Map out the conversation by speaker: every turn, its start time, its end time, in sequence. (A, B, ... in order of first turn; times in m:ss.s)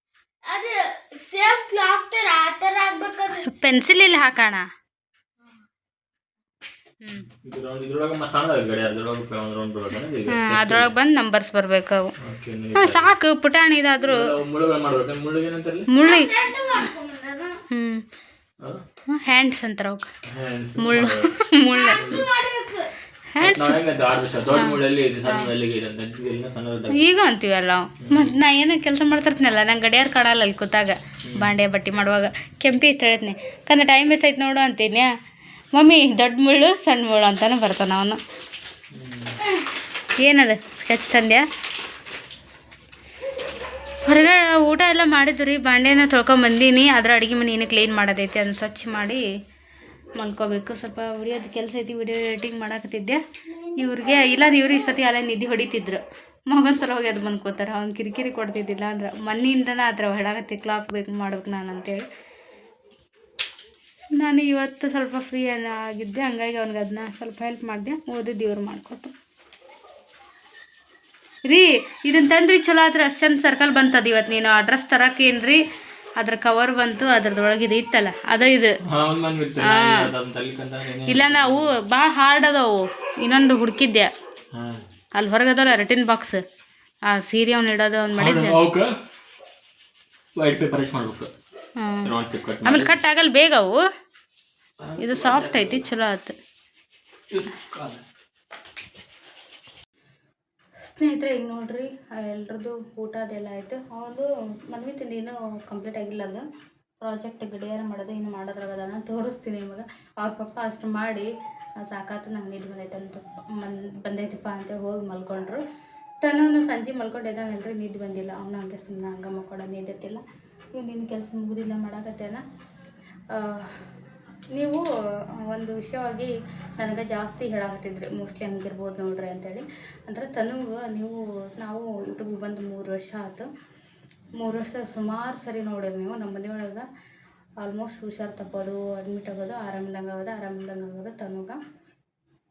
0:00.4-0:03.4 A
0:03.4-0:04.7 B
0:07.0-0:07.3 B
0:07.4-0:10.9 C
0:10.3-0:12.1 B
0:12.2-0:13.1 C
0:12.8-0:14.3 B
0:14.1-0:15.9 C
0:15.9-0:16.3 B
0:16.0-0:17.6 A
0:17.7-0:18.0 B
0:19.1-0:20.1 B
0:20.3-0:21.3 C
0:20.8-0:22.0 B
0:21.7-0:22.9 A
0:21.9-0:22.3 C
0:23.3-0:23.8 B
0:23.4-0:27.0 C
0:24.5-0:25.5 B
0:26.9-0:35.1 B
0:28.0-0:28.4 C
0:31.2-0:31.5 C
0:35.8-0:38.2 B
0:38.9-0:39.4 C
0:40.2-0:41.5 B
0:44.0-0:49.2 B
0:50.2-0:53.2 B
0:53.8-1:02.1 B
0:53.9-0:54.6 A
1:04.1-1:09.1 B
1:11.4-1:15.6 B
1:16.2-1:18.8 B
1:18.9-1:21.7 C
1:19.6-1:20.1 B
1:21.1-1:24.1 B
1:24.5-1:24.8 C
1:25.2-1:26.4 B
1:27.1-1:28.6 B
1:28.2-1:29.0 C
1:30.4-1:31.3 C
1:31.8-1:32.1 B
1:32.0-1:32.9 C
1:32.6-1:33.8 B
1:34.8-1:35.9 C
1:35.0-1:36.4 B
1:37.3-1:38.0 C
1:40.8-1:46.4 B
1:47.0-1:55.6 B
1:56.2-2:00.2 B
2:00.7-2:02.4 B
2:03.3-2:03.8 B
2:04.5-2:04.8 B
2:05.4-2:13.5 B
2:14.4-2:16.9 B
2:17.6-2:21.6 B